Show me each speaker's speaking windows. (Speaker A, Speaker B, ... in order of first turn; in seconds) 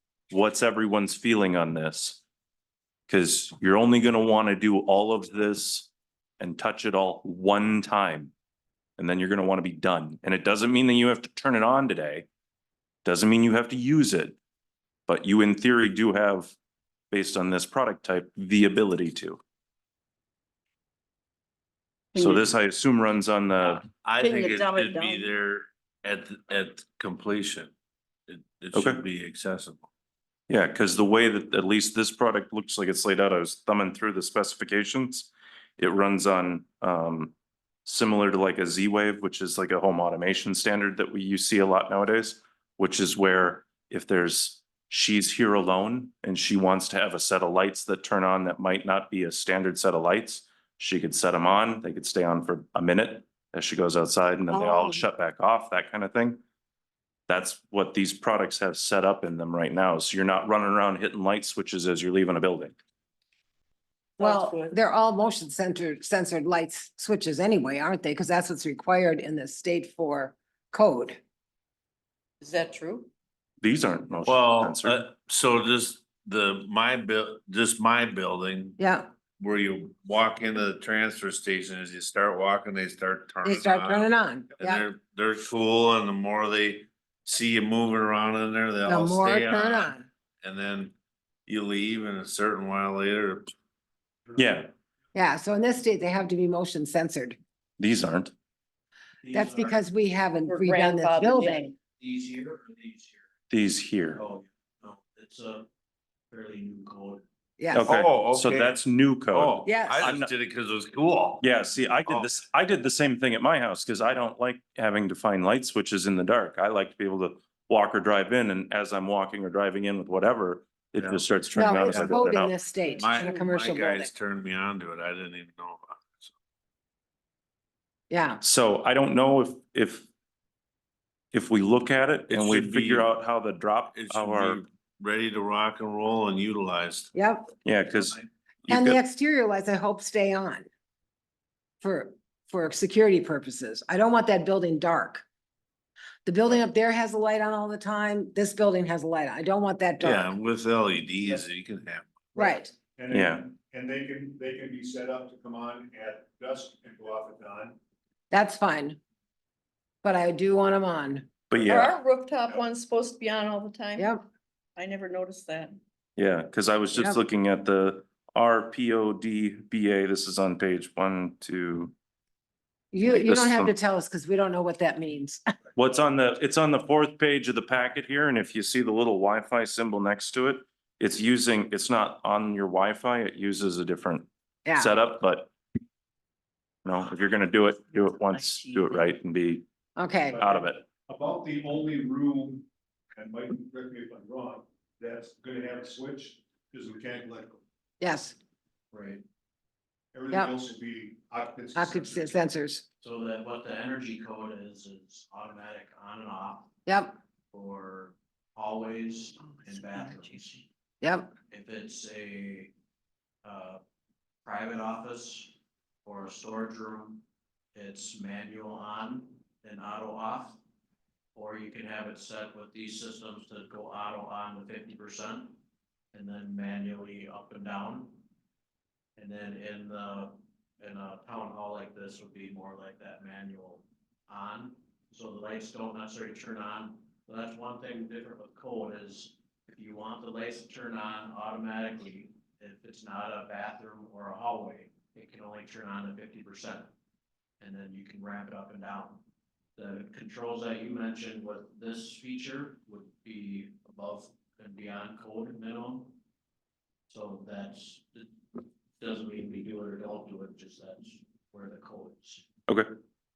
Speaker A: 0.3-2.2, 3.1-5.9, 6.4-8.3, 9.0-12.3, 13.0-14.4, 15.1-16.6, 17.1-19.4, 22.1-23.8, 28.7-29.0, 30.5-56.4, 57.3-62.7, 73.6-75.0, 94.4-94.7, 97.8-98.3, 103.5-104.2, 107.7-110.3, 111.4-122.6, 128.4-130.1, 131.3-134.6, 137.6-139.0, 153.1-153.4, 161.5-161.9, 166.2-171.9, 173.1-173.7, 175.8-185.5, 186.8-189.6, 190.4-190.8
Speaker B: 22.1-22.4, 24.2-25.3, 54.6-55.0, 64.2-64.8, 72.4-73.1, 100.5-101.7, 161.6-164.1, 164.8-165.8
Speaker C: 23.7-27.7, 28.3-29.9, 74.3-78.8, 79.4-90.9, 91.5-93.5, 107.8-108.7, 109.3-111.5, 121.9-122.2, 123.0-126.3, 132.3-133.1, 133.9-137.1, 150.0-152.1
Speaker D: 64.2-71.2, 78.8-79.1, 83.4-84.8, 88.8-90.0, 95.1-97.4, 99.3-101.7, 107.6-107.9, 109.6-110.1, 121.5-124.1, 128.1-128.4, 137.1-137.5, 138.7-140.7, 141.8-145.2, 146.2-150.3, 152.3-152.7, 158.3-159.0, 160.0-161.3, 164.0-164.2, 172.9-175.4, 184.7-184.9, 190.0-190.4, 198.0-198.3, 201.7-202.8, 206.8-207.2, 211.0-211.3
Speaker E: 99.2-99.8, 102.0-103.2, 104.1-105.7, 106.3-107.2, 198.9-199.2, 203.0-206.7, 207.5-210.6, 211.5-212.7, 213.4-213.8, 214.4-217.2, 217.7-220.6, 221.3-225.5, 226.1-228.2, 229.2-246.9, 247.6-249.2, 249.8-256.1, 257.1-262.4
Speaker F: 152.4-157.8, 190.3-197.6, 200.1-202.4